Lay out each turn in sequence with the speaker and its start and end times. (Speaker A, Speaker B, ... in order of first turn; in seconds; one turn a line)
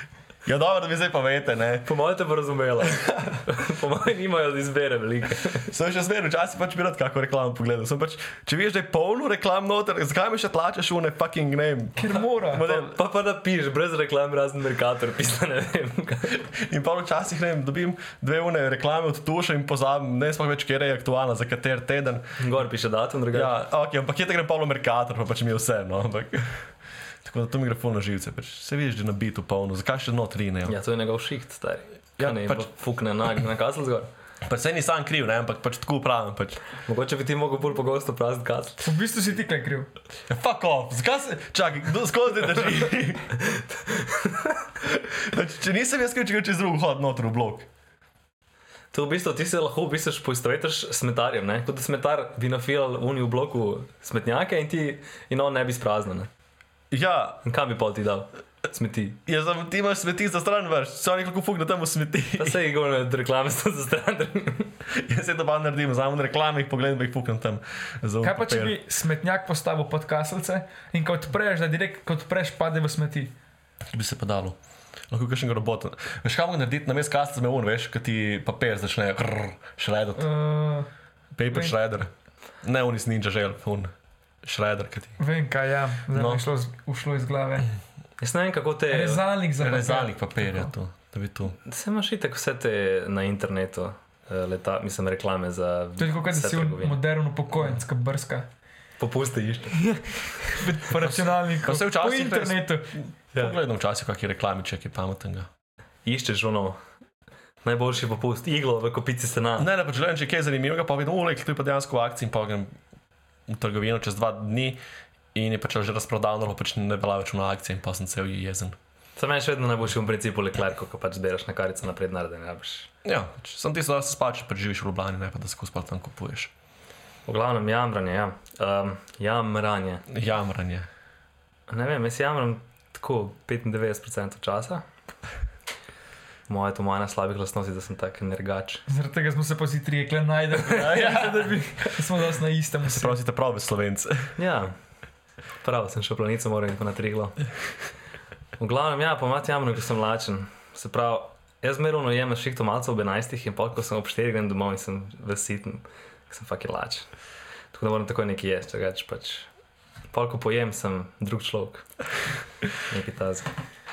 Speaker A: 0.5-1.9
Speaker B: 1.9-5.7
Speaker A: 5.7-13.0
Speaker C: 12.0-12.7
Speaker B: 12.1-16.4
Speaker A: 16.4-22.3
Speaker B: 22.4-23.5
Speaker A: 23.3-26.7
Speaker A: 27.2-30.8
Speaker B: 30.7-34.1
Speaker A: 32.2-32.7
Speaker A: 34.4-36.6
Speaker B: 36.9-38.8
Speaker C: 38.8-39.9
Speaker A: 40.3-43.4
Speaker B: 43.5-44.6
Speaker A: 44.8-47.7
Speaker B: 48.9-56.3
Speaker A: 56.9-57.4
Speaker B: 57.5-59.2
Speaker A: 59.3-62.6
Speaker B: 62.4-64.8
Speaker A: 64.9-68.8
Speaker C: 68.2-73.3
Speaker A: 73.9-74.6
Speaker A: 75.1-80.3
Speaker C: 80.2-80.9
Speaker A: 81.4-82.1
Speaker C: 81.5-81.8
Speaker A: 82.6-83.9
Speaker A: 84.4-85.2
Speaker C: 85.2-87.7
Speaker A: 86.1-86.5
Speaker B: 88.2-89.2
Speaker C: 88.9-90.7
Speaker A: 89.6-91.6
Speaker B: 91.7-97.0
Speaker C: 96.0-98.5
Speaker B: 99.0-99.8
Speaker C: 99.8-102.9
Speaker A: 101.0-105.5
Speaker B: 106.0-106.8
Speaker B: 107.6-109.7
Speaker A: 109.6-112.7
Speaker A: 113.5-114.8
Speaker A: 115.3-118.8
Speaker B: 119.2-122.9
Speaker A: 123.0-126.5
Speaker B: 127.3-130.1
Speaker A: 130.1-130.9
Speaker B: 131.7-134.8
Speaker B: 136.5-138.8
Speaker C: 138.9-143.2
Speaker A: 140.7-141.4
Speaker B: 140.8-141.1
Speaker A: 142.9-144.3
Speaker B: 144.4-144.7
Speaker B: 145.6-147.5
Speaker B: 148.6-157.1
Speaker B: 157.7-159.5
Speaker B: 160.1-161.9
Speaker B: 162.8-163.5